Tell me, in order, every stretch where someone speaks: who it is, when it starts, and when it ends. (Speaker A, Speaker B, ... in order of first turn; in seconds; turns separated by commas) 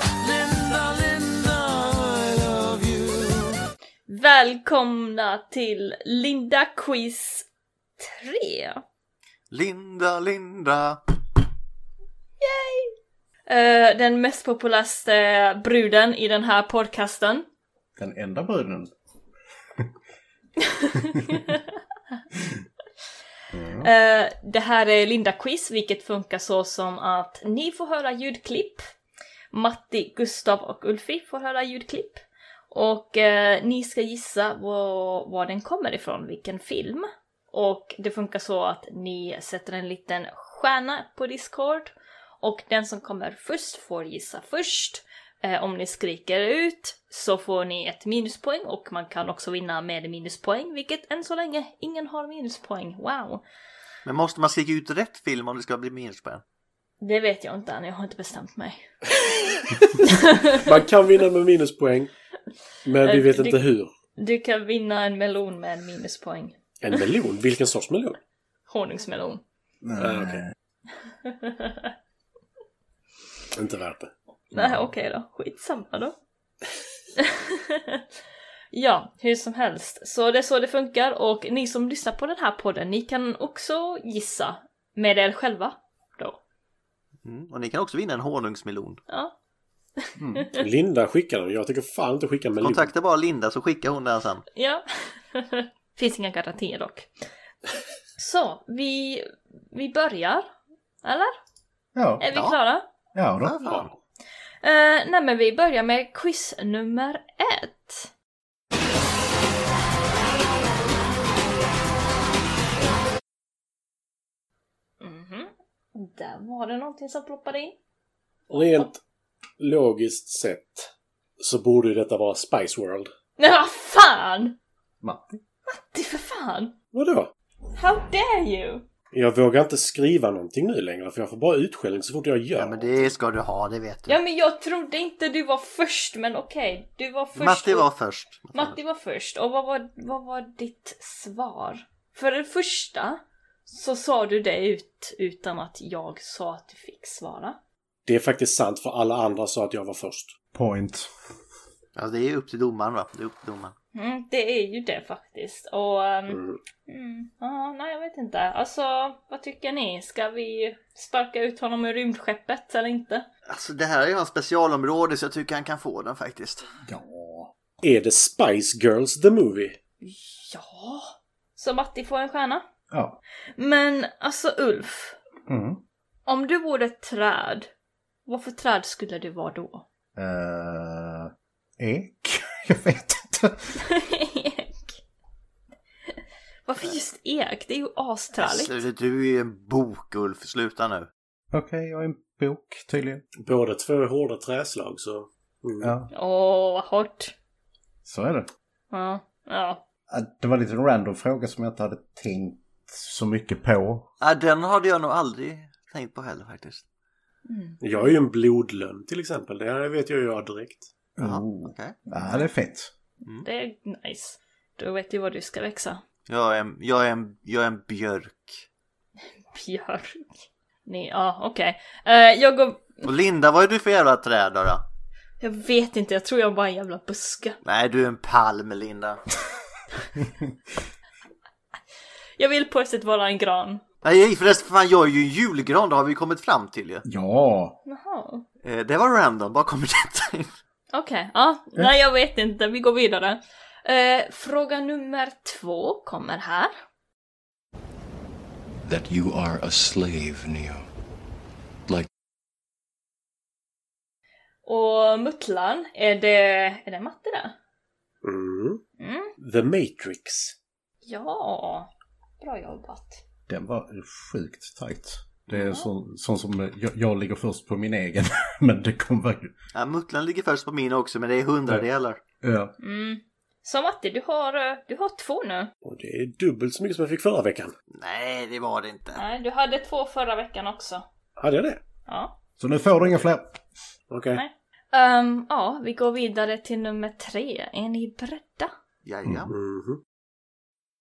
Speaker A: 0.2-3.6, Speaker B: 4.1-7.5, Speaker B: 8.0-8.8, Speaker C: 9.5-11.0, Speaker B: 12.4-12.9, Speaker B: 13.5-17.5, Speaker D: 18.0-18.9, Speaker B: 20.7-21.6, Speaker D: 23.5-23.9, Speaker B: 23.8-28.9, Speaker B: 29.5-53.4, Speaker C: 54.0-56.4, Speaker B: 57.0-58.9, Speaker B: 60.0-60.6, Speaker E: 60.6-62.1, Speaker E: 62.9-63.9, Speaker B: 63.0-63.6, Speaker B: 64.2-66.6, Speaker E: 66.8-68.2, Speaker B: 68.7-69.4, Speaker D: 69.8-70.5, Speaker E: 70.0-70.4, Speaker B: 71.2-71.9, Speaker E: 73.5-74.1, Speaker D: 74.5-74.9, Speaker B: 74.5-76.1, Speaker B: 77.2-78.0, Speaker B: 78.7-86.4, Speaker C: 87.2-89.0, Speaker B: 89.1-89.3, Speaker B: 90.0-90.5, Speaker D: 90.2-90.5, Speaker E: 90.6-92.9, Speaker C: 92.6-94.5, Speaker B: 94.5-97.1, Speaker B: 98.2-100.5, Speaker B: 101.0-101.4, Speaker D: 102.0-102.2, Speaker B: 102.2-102.9, Speaker C: 102.3-102.6, Speaker D: 103.2-103.6, Speaker C: 103.4-103.9, Speaker B: 104.6-108.1, Speaker B: 115.0-117.8, Speaker E: 118.5-119.0, Speaker E: 119.6-123.1, Speaker B: 123.4-124.6, Speaker D: 125.0-125.4, Speaker B: 125.7-126.8, Speaker E: 126.9-127.3, Speaker B: 127.8-128.8, Speaker E: 129.1-132.8, Speaker C: 132.6-134.2, Speaker B: 134.1-137.9, Speaker C: 137.4-138.8, Speaker B: 138.5-147.6, Speaker E: 148.1-150.3, Speaker D: 150.5-151.1, Speaker C: 152.0-153.7, Speaker B: 153.9-163.3, Speaker E: 156.3-156.6, Speaker C: 163.5-166.7, Speaker D: 166.9-167.5, Speaker E: 167.8-169.8, Speaker B: 170.0-172.7, Speaker D: 172.9-173.2, Speaker B: 173.6-175.2, Speaker D: 175.5-175.8, Speaker B: 176.3-177.7, Speaker B: 178.3-179.9, Speaker D: 180.2-183.7, Speaker B: 183.8-185.0, Speaker B: 186.7-188.8, Speaker C: 188.4-191.1, Speaker D: 191.5-193.2, Speaker E: 193.4-195.9, Speaker D: 195.8-196.1, Speaker B: 196.1-197.3, Speaker D: 198.1-198.5, Speaker B: 198.9-199.8, Speaker D: 200.1-204.1, Speaker C: 204.2-206.8, Speaker B: 207.5-208.1, Speaker E: 207.8-210.9, Speaker D: 211.2-212.9, Speaker C: 211.2-211.9, Speaker B: 213.4-216.0, Speaker C: 216.3-218.7, Speaker B: 219.5-223.1, Speaker C: 223.1-224.8, Speaker B: 225.4-227.6, Speaker C: 227.6-229.2, Speaker B: 232.4-233.8, Speaker C: 234.0-237.0, Speaker D: 237.0-237.8, Speaker B: 237.8-238.4, Speaker C: 238.6-240.6, Speaker B: 240.9-246.7, Speaker F: 248.8-250.9, Speaker B: 254.7-257.6, Speaker E: 258.2-258.8, Speaker B: 259.0-259.3, Speaker E: 259.4-260.6, Speaker B: 261.1-261.9, Speaker B: 262.4-263.2, Speaker D: 263.5-269.5, Speaker B: 265.5-265.9, Speaker C: 269.8-272.2, Speaker D: 272.4-272.7, Speaker B: 272.8-275.7, Speaker E: 275.9-277.7, Speaker C: 277.9-279.2, Speaker B: 279.2-281.1, Speaker E: 281.4-281.8, Speaker B: 282.1-282.3, Speaker D: 282.6-283.6, Speaker E: 284.1-284.4, Speaker B: 284.3-288.7, Speaker C: 289.0-289.5, Speaker D: 289.2-289.5, Speaker E: 289.5-290.0